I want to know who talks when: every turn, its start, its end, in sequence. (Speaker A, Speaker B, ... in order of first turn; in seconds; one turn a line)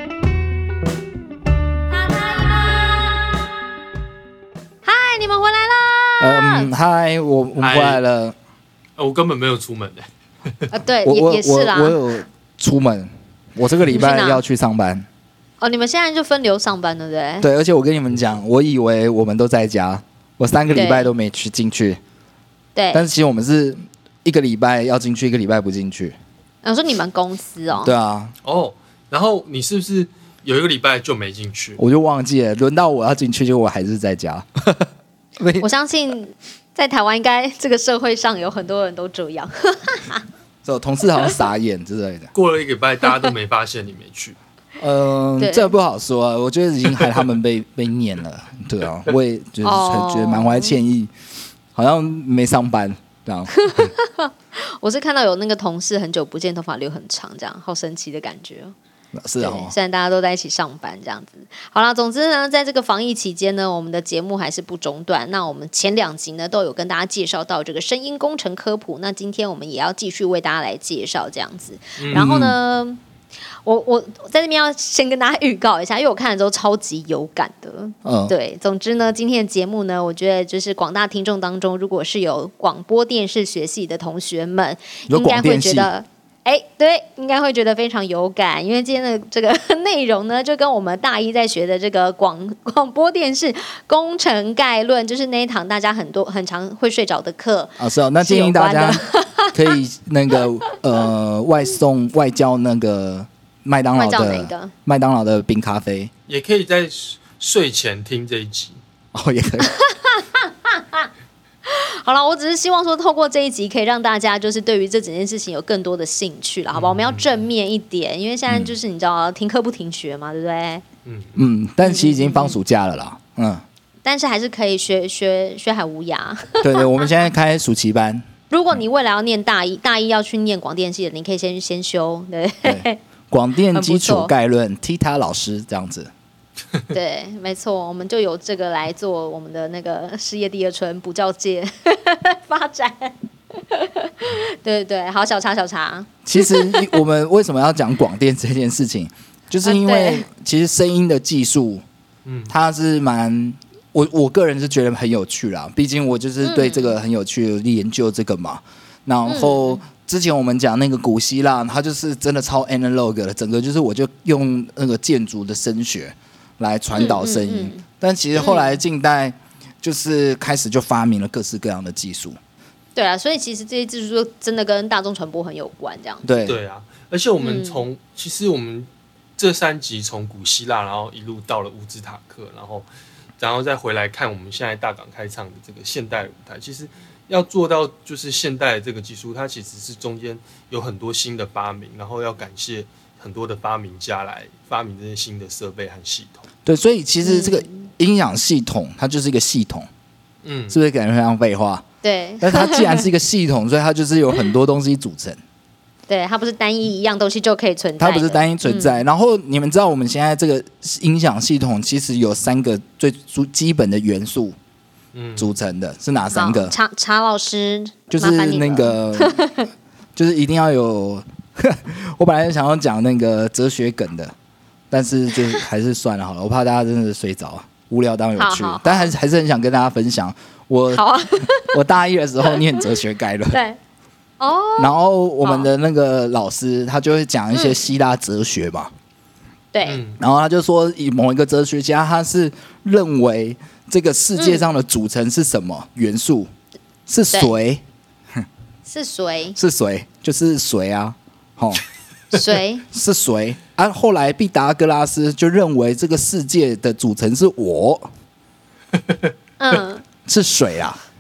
Speaker A: 1.9-3.5
Speaker A: 4.8-6.7
Speaker B: 6.2-8.4
Speaker C: 7.6-8.0
Speaker C: 9.0-10.1
Speaker A: 10.7-12.0
Speaker B: 11.0-15.1
Speaker A: 13.9-14.4
Speaker A: 15.6-17.5
Speaker B: 17.4-22.0
Speaker A: 20.7-21.1
Speaker A: 22.8-23.1
Speaker B: 22.9-26.1
Speaker A: 26.6-27.9
Speaker B: 27.7-28.3
Speaker C: 28.4-31.8
Speaker B: 31.8-34.9
Speaker B: 35.4-35.7
Speaker A: 35.6-40.2
Speaker B: 40.6-42.3
Speaker C: 42.4-44.4
Speaker B: 44.8-51.1
Speaker A: 45.4-45.7
Speaker A: 49.6-50.8
Speaker B: 51.8-53.9
Speaker A: 53.5-58.8
Speaker B: 59.2-59.8
Speaker A: 59.4-73.0
Speaker C: 72.0-72.3
Speaker B: 72.1-72.6
Speaker A: 73.7-99.7
Speaker B: 78.0-78.3
Speaker B: 85.1-85.9
Speaker B: 97.8-106.1
Speaker A: 104.0-104.7
Speaker C: 106.3-108.8
Speaker B: 109.1-109.7
Speaker A: 109.6-111.1
Speaker A: 111.7-120.8
Speaker C: 116.7-117.4
Speaker C: 121.1-121.4
Speaker B: 121.4-123.6
Speaker A: 121.8-122.6
Speaker A: 124.0-127.1
Speaker B: 126.6-128.3
Speaker A: 128.5-133.0
Speaker B: 132.7-136.1
Speaker A: 133.7-134.3
Speaker A: 136.9-147.0
Speaker B: 146.2-151.8
Speaker A: 149.6-150.3
Speaker C: 152.2-152.5
Speaker B: 152.5-172.4
Speaker A: 156.4-157.0
Speaker A: 159.3-159.8
Speaker A: 166.9-167.8
Speaker A: 168.4-168.8
Speaker A: 173.0-176.3
Speaker B: 176.2-176.6
Speaker C: 176.5-182.9
Speaker A: 177.4-177.8
Speaker C: 183.4-196.4
Speaker B: 196.7-199.9
Speaker A: 197.2-197.9
Speaker C: 200.4-200.8
Speaker B: 200.7-201.8
Speaker A: 202.0-203.1
Speaker B: 202.4-205.4
Speaker A: 206.1-209.0
Speaker B: 208.0-214.6
Speaker C: 215.1-215.5
Speaker B: 215.4-216.8
Speaker A: 216.3-219.7
Speaker B: 218.1-219.4
Speaker B: 220.2-224.3
Speaker B: 224.9-233.6
Speaker A: 228.4-229.1
Speaker A: 230.9-231.8
Speaker A: 232.5-232.8
Speaker A: 233.5-233.8
Speaker A: 234.4-235.7
Speaker B: 234.8-238.9
Speaker A: 237.5-237.8
Speaker A: 239.7-240.0
Speaker C: 239.8-240.2
Speaker B: 240.2-246.5
Speaker A: 244.4-244.7
Speaker B: 247.1-247.8
Speaker A: 248.8-249.6
Speaker B: 249.6-251.8
Speaker A: 252.3-252.9
Speaker B: 252.9-258.1
Speaker C: 259.0-259.3
Speaker A: 259.6-260.0
Speaker B: 260.3-261.0